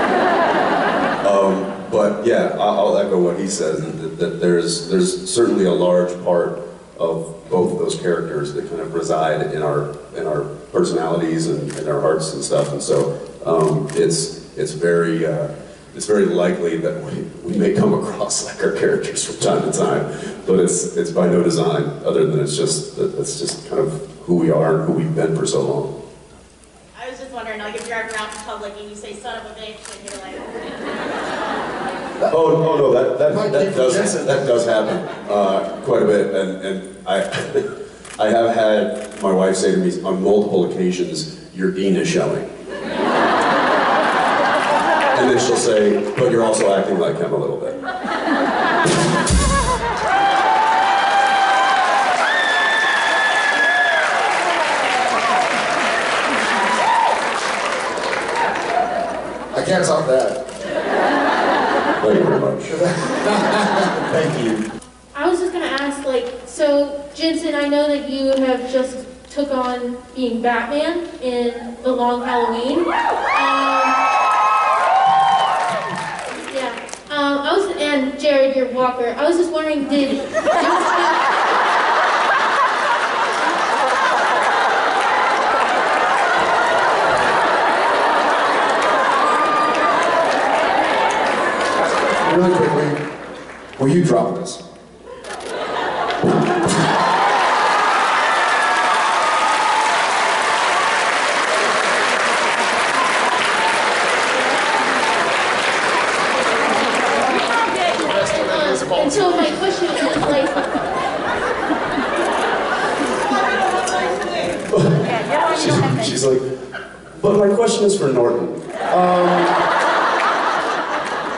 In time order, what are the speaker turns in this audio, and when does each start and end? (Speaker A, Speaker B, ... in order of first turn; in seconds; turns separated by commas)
Speaker A: 1.2-25.9, Speaker B: 26.9-30.5, Speaker C: 32.2-32.7, Speaker A: 32.3-42.5, Speaker C: 33.2-34.6, Speaker A: 45.1-47.8, Speaker C: 59.5-60.5, Speaker A: 62.0-62.8, Speaker C: 62.7-64.7, Speaker D: 65.2-74.0, Speaker D: 76.5-81.2, Speaker C: 92.2-93.0, Speaker C: 93.8-94.6, Speaker D: 108.3-110.8, Speaker A: 114.7-116.5, Speaker A: 117.2-119.6